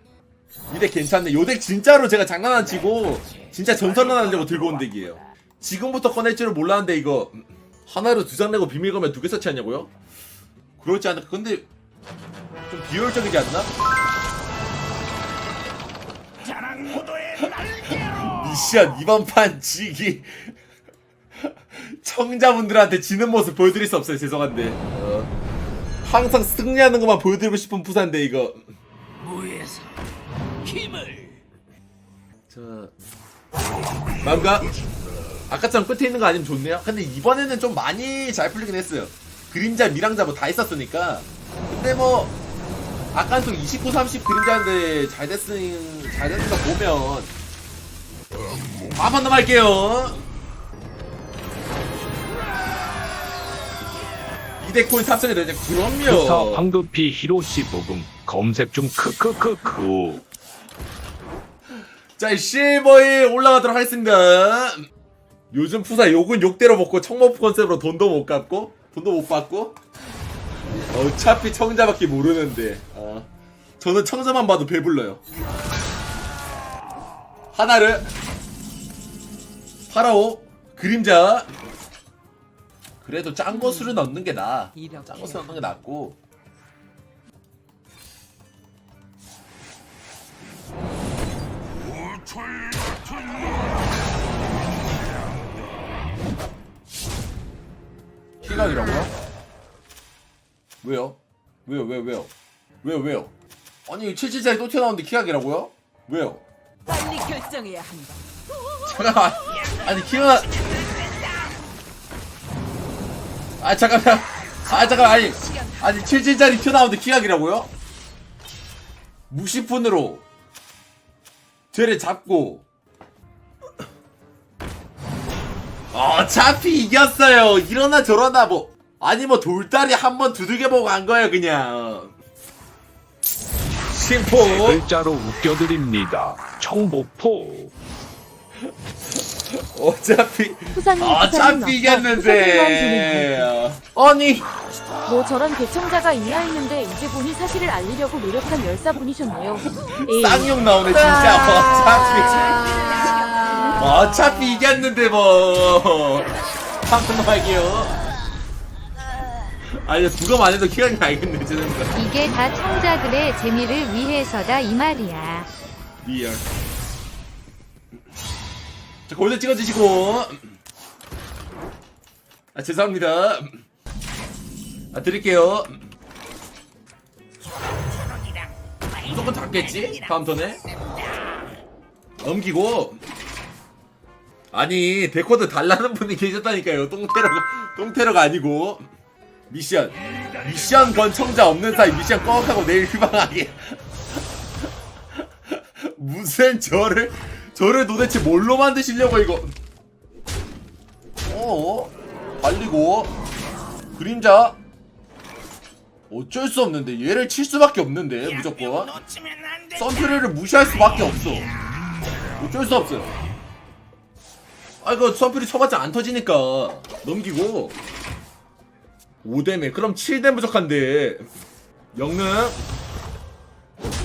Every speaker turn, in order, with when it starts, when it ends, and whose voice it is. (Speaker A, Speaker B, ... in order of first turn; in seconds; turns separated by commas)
Speaker A: 0.7-9.9, Speaker B: 3.3-4.9, Speaker A: 10.8-11.7, Speaker A: 12.7-13.7, Speaker A: 17.0-20.5, Speaker A: 21.5-25.3, Speaker A: 26.0-28.7, Speaker B: 29.2-29.9, Speaker B: 30.6-31.4, Speaker A: 32.5-32.9, Speaker A: 34.2-34.7, Speaker A: 35.5-42.3, Speaker A: 43.1-47.3, Speaker A: 48.9-50.2, Speaker A: 54.6-56.6, Speaker C: 56.0-60.2, Speaker A: 62.2-64.8, Speaker A: 65.5-69.8, Speaker A: 70.9-73.3, Speaker A: 73.8-75.2, Speaker A: 77.5-78.1, Speaker A: 79.9-81.6, Speaker A: 83.0-86.2, Speaker B: 84.8-85.6, Speaker A: 98.4-99.1, Speaker A: 100.8-103.3, Speaker A: 103.9-106.4, Speaker B: 106.8-108.2, Speaker A: 108.8-110.8, Speaker D: 111.0-111.4, Speaker A: 113.6-117.7, Speaker B: 114.6-116.3, Speaker A: 119.3-120.2, Speaker A: 121.7-122.7, Speaker A: 125.9-132.1, Speaker A: 133.9-134.8, Speaker C: 134.3-137.7, Speaker A: 139.5-144.5, Speaker E: 140.8-143.5, Speaker E: 145.1-152.0, Speaker A: 149.8-158.0, Speaker B: 152.0-153.8, Speaker A: 159.7-161.9, Speaker D: 161.9-165.5, Speaker A: 166.0-166.4, Speaker A: 169.1-170.5, Speaker A: 172.5-173.6, Speaker A: 174.9-175.8, Speaker A: 179.0-180.6, Speaker A: 182.2-183.0, Speaker A: 184.5-188.8, Speaker A: 189.5-193.8, Speaker A: 195.4-199.5, Speaker A: 201.2-203.1, Speaker A: 203.9-204.6, Speaker A: 206.1-209.0, Speaker D: 209.0-209.6, Speaker A: 209.7-211.5, Speaker A: 212.4-213.2, Speaker A: 214.8-217.8, Speaker A: 219.2-221.2, Speaker A: 221.9-222.6